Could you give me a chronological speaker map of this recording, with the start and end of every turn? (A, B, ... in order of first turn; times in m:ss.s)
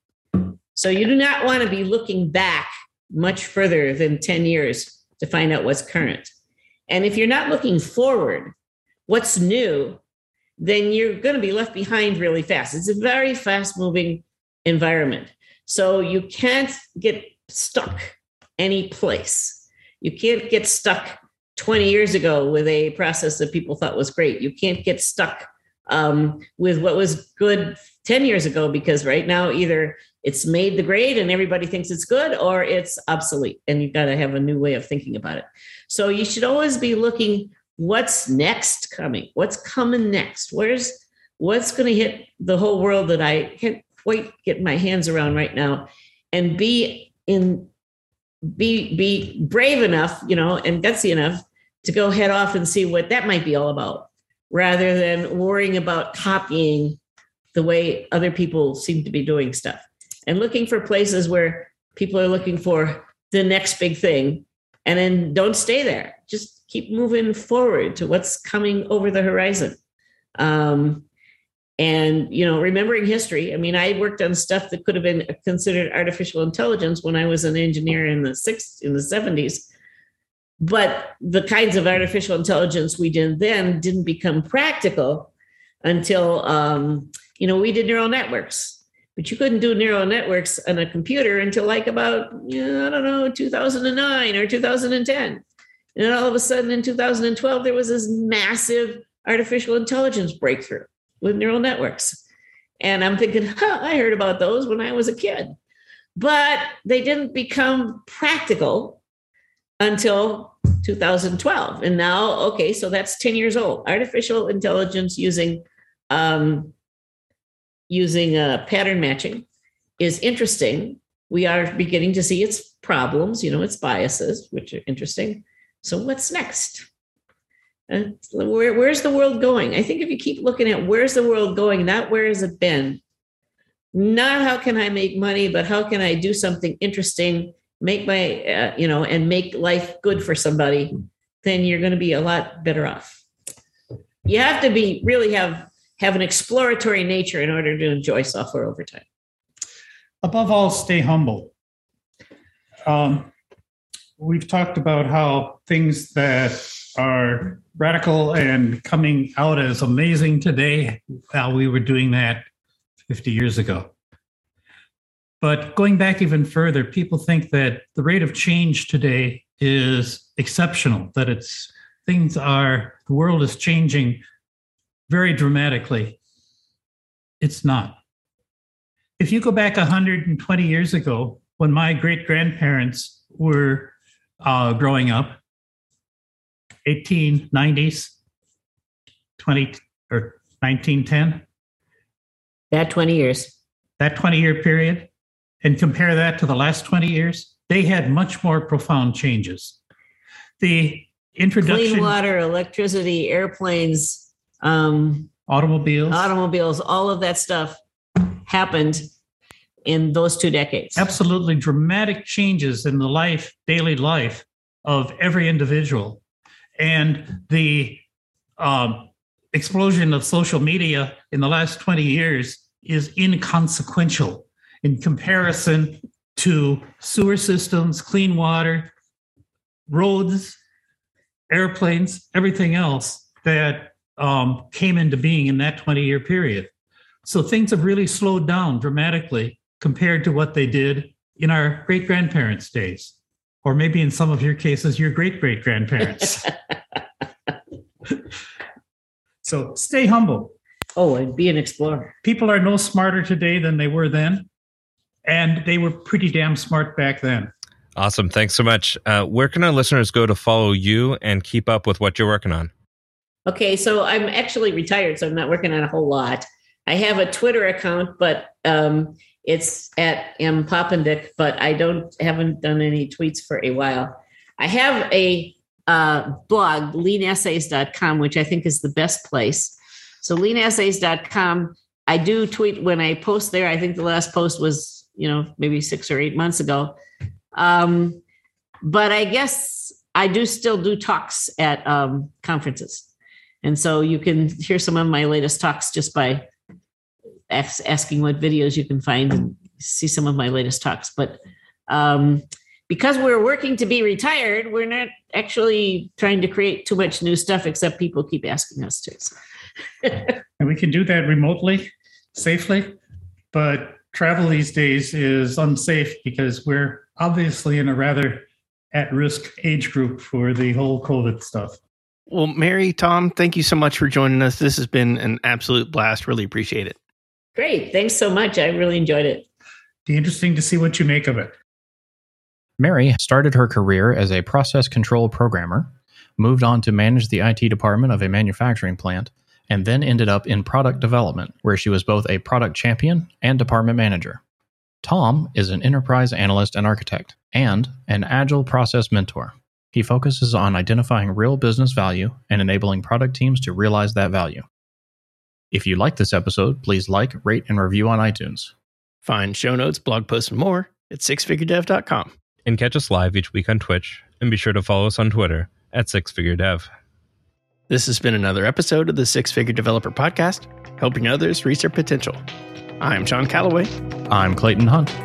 0:00.3-0:06.3 A
0:06.9-0:08.5 A
0:09.1-0:10.0 A
0:10.6-0:47.7 A
0:48.4-0:57.0 A
0:57.5-1:09.8 A
1:10.4-1:11.0 A
1:11.8-1:19.7 A
1:20.6-1:25.3 A
1:25.8-1:35.4 A
1:36.0-1:42.2 A
1:42.8-1:45.5 A
1:46.2-1:49.0 A
1:49.8-1:56.7 A
1:57.9-1:59.4 A
2:00.0-2:06.9 A
2:07.9-2:13.0 A
2:13.9-2:23.2 A
2:24.2-2:29.0 A
2:30.2-2:31.5 B
2:32.8-2:33.3 B
2:34.2-2:42.4 B
2:43.1-2:43.9 B
2:45.4-2:54.2 B
2:55.1-2:56.2 B
2:57.4-2:58.0 B
2:59.2-3:05.4 B
3:06.8-3:08.1 B
3:09.4-3:11.4 B
3:12.7-3:13.5 A
3:14.0-3:15.1 B
3:15.6-3:19.8 B
3:20.6-3:22.2 B
3:21.6-3:25.3 A
3:25.5-3:26.3 B
3:26.1-3:29.0 A
3:29.8-3:31.0 A
3:31.0-3:36.2 B
3:36.8-3:38.0 B
3:38.6-3:48.9 B
3:49.9-3:50.6 B
3:51.5-3:56.7 B
3:57.2-4:06.5 B
4:09.4-4:10.5 B
4:11.0-4:12.1 A
4:12.2-4:14.5 B
4:15.2-4:17.5 B
4:17.9-4:22.7 C
4:23.4-4:47.0 A
4:47.6-4:48.2 A
4:48.8-4:53.1 A
4:53.6-4:56.5 A
4:57.5-5:09.3 A
5:10.6-5:13.0 B
5:13.5-5:21.8 B
5:22.3-5:27.0 D
5:27.6-5:29.4 A
5:30.0-5:31.5 B
5:32.8-5:44.4 E
5:45.0-5:54.6 E
5:55.7-5:58.7 E
5:59.2-6:02.3 D
6:02.6-6:06.9 C
6:07.9-6:12.4 D
6:13.0-6:13.9 D
6:14.3-6:15.1 E